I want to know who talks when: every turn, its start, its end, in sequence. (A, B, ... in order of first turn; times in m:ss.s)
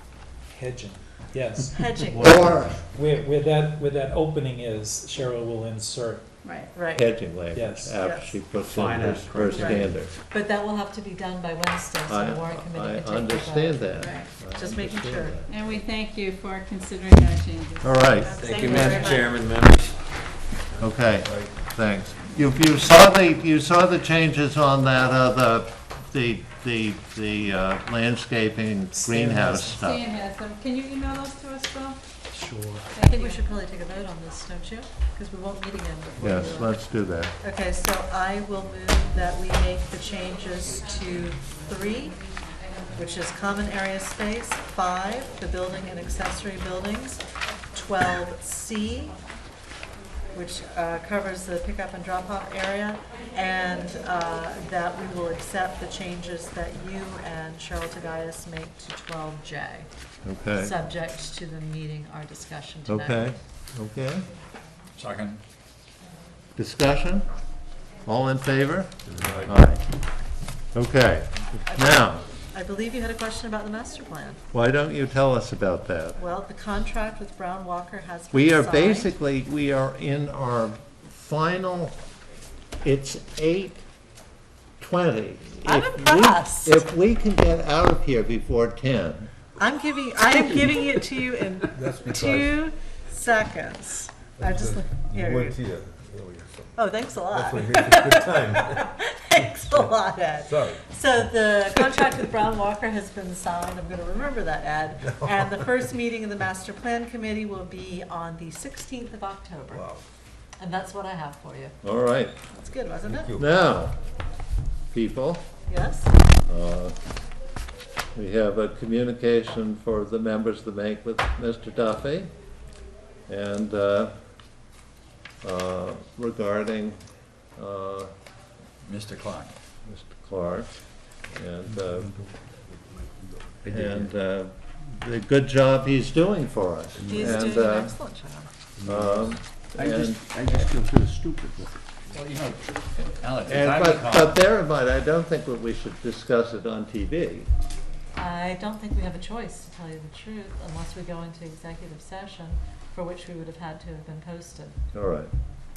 0:00.5-0:06.3 A
0:01.7-0:02.6 B
0:02.2-0:02.8 C
0:06.4-0:06.7 D
0:06.7-0:07.1 B
0:06.9-0:10.1 C
0:07.5-0:08.0 A
0:08.0-0:08.3 B
0:08.6-0:10.0 E
0:09.5-0:15.4 B
0:12.1-0:15.5 C
0:14.0-0:14.3 D
0:15.5-0:19.3 D
0:17.8-0:19.0 C
0:18.2-0:19.3 B
0:18.4-0:20.0 E
0:20.8-0:30.0 C
0:21.2-0:21.5 F
0:29.0-0:29.8 A
0:29.8-0:32.0 D
0:32.3-0:32.9 A
0:32.9-0:33.4 D
0:33.0-0:36.8 B
0:36.2-0:36.4 A
0:36.2-0:37.3 C
0:37.4-0:42.2 B
0:42.9-0:47.2 B
0:47.7-0:49.1 B
0:50.3-0:59.9 B
1:00.2-1:00.7 C
1:00.6-1:03.4 B
1:02.9-1:04.2 C
1:05.0-1:05.4 G
1:06.6-1:07.2 C
1:08.0-1:08.9 C
1:09.2-1:09.5 F
1:09.4-1:09.8 C
1:10.7-1:12.2 C
1:11.7-1:14.4 B
1:14.5-1:16.2 C
1:16.2-1:19.1 B
1:18.3-1:22.0 C
1:22.8-1:23.8 C
1:24.8-1:29.3 C
1:25.6-1:26.8 B
1:29.6-1:35.5 B
1:31.7-1:32.5 F
1:34.4-1:38.8 F
1:36.8-1:49.8 B
1:39.7-1:40.8 F
1:49.7-1:50.0 F
1:50.6-1:51.7 B
1:51.8-1:52.3 C
1:52.5-1:53.3 B
1:53.0-1:53.5 F
1:53.3-1:53.9 C
1:54.9-1:55.5 C
1:55.7-1:56.1 B
1:56.4-1:56.9 C
1:58.1-2:02.3 C
2:03.3-2:04.1 C
2:05.4-2:07.0 C
2:07.6-2:08.1 C
2:09.0-2:09.5 G
2:09.8-2:10.7 C
2:11.3-2:12.1 C
2:11.6-2:13.8 F
2:13.6-2:18.0 C
2:13.6-2:14.1 E
2:17.0-2:17.5 F
2:17.1-2:18.5 B
2:18.8-2:19.2 E
2:18.8-2:20.7 C
2:19.8-2:21.8 E
2:22.1-2:22.8 G
2:23.4-2:24.4 G
2:23.5-2:27.5 C
2:28.2-2:34.8 B
2:34.9-2:35.3 C